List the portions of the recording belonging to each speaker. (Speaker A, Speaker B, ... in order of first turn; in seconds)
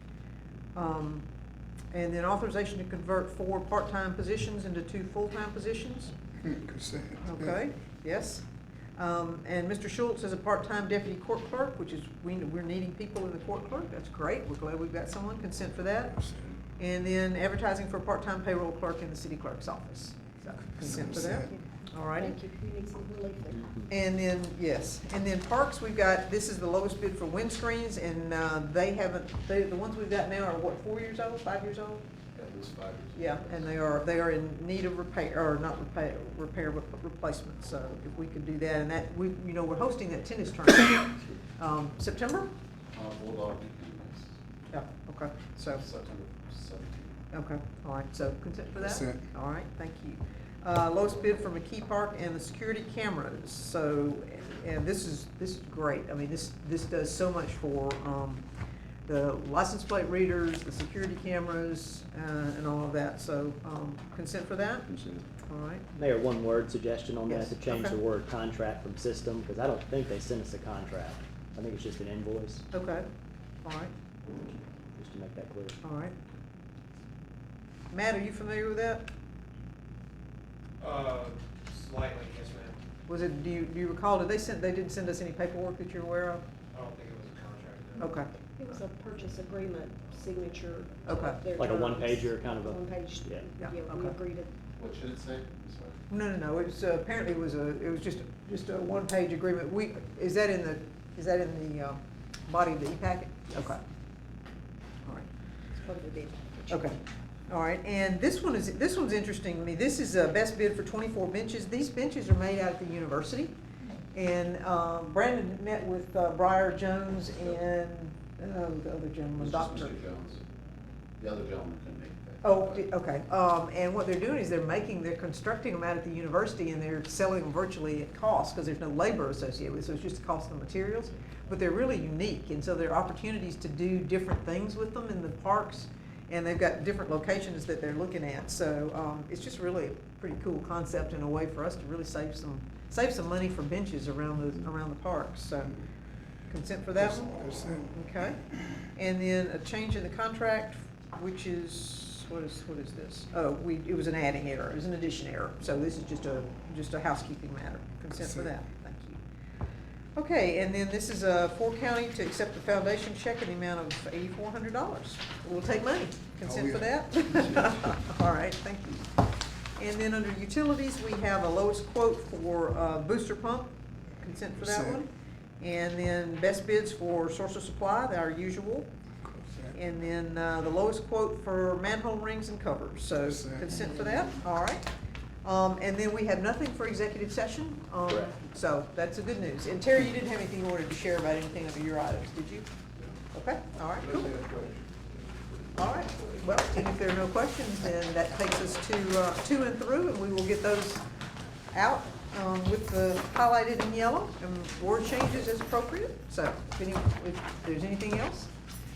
Speaker A: 0.7-1.2, 1.9-6.1, 7.2-8.4, 9.0-16.2, 16.8-22.4, 23.9-32.0, 33.1-42.5, 44.7-45.8, 47.3-58.4, 59.0-65.8, 67.3-68.0, 72.7-73.0, 73.6-73.9, 75.8-76.1, 77.9-79.1, 83.1-86.4, 88.0-88.3, 91.1-91.4, 93.6-94.2, 96.1-103.8, 106.7-113.5, 114.1-119.9, 122.4-145.8, 146.5-148.4, 148.9-159.2, 160.2-169.2, 169.8-175.1, 175.6-178.9, 179.7-184.9, 185.4-192.7, 193.3-194.4, 195.8-201.0, 201.7-208.5
Speaker B: 6.4-7.4, 21.0-21.3, 48.9-49.2, 147.3-147.9, 158.2-158.5, 166.4-166.8, 167.4-167.7, 174.6-175.0, 179.2-179.7, 183.2-183.7
Speaker C: 21.3-21.6, 22.1-23.7, 88.6-94.5, 105.7-106.9
Speaker D: 32.3-33.6, 42.9-44.3, 45.6-47.2, 94.8-96.0, 119.4-120.4, 121.2-122.8
Speaker E: 65.9-72.6, 74.9-75.8, 91.5-93.4
Speaker F: 80.8-82.8, 86.7-88.0